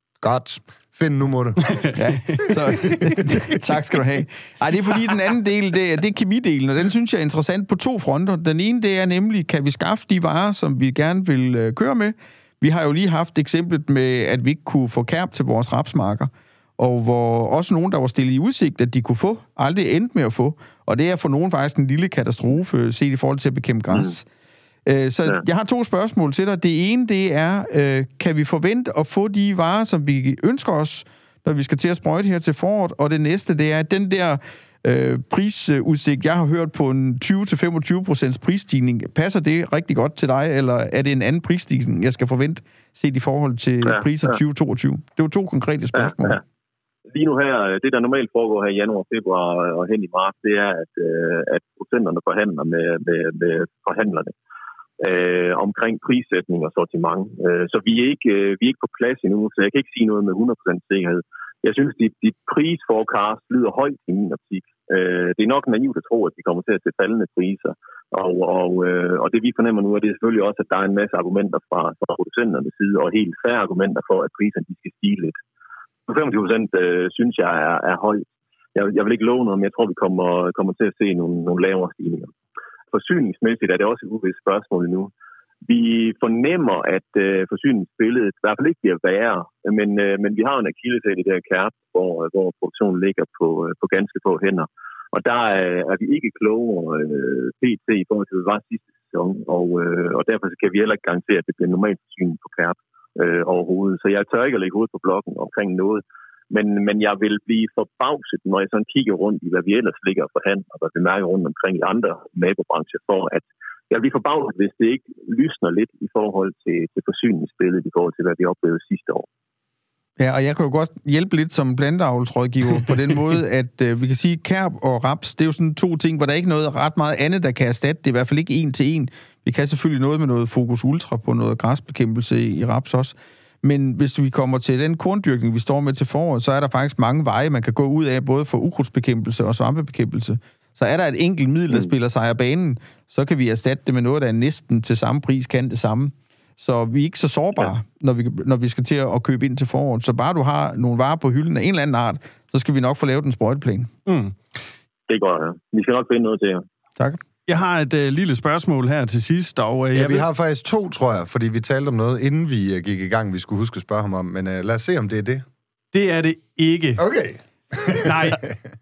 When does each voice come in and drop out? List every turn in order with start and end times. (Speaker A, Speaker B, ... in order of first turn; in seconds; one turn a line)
Speaker A: 0.2-1.8
Speaker B: 1.7-2.5
Speaker C: 1.9-24.2
Speaker C: 24.9-46.4
Speaker D: 43.8-44.4
Speaker D: 45.9-46.4
Speaker D: 47.1-54.3
Speaker D: 55.0-75.3
Speaker D: 76.1-82.3
Speaker D: 82.9-85.1
Speaker D: 85.6-119.3
Speaker C: 120.2-153.9
Speaker B: 154.1-154.3
Speaker D: 155.1-156.6
Speaker B: 157.5-160.2
Speaker A: 159.9-165.4
Speaker B: 165.9-167.0
Speaker A: 167.0-168.5
Speaker B: 168.0-168.4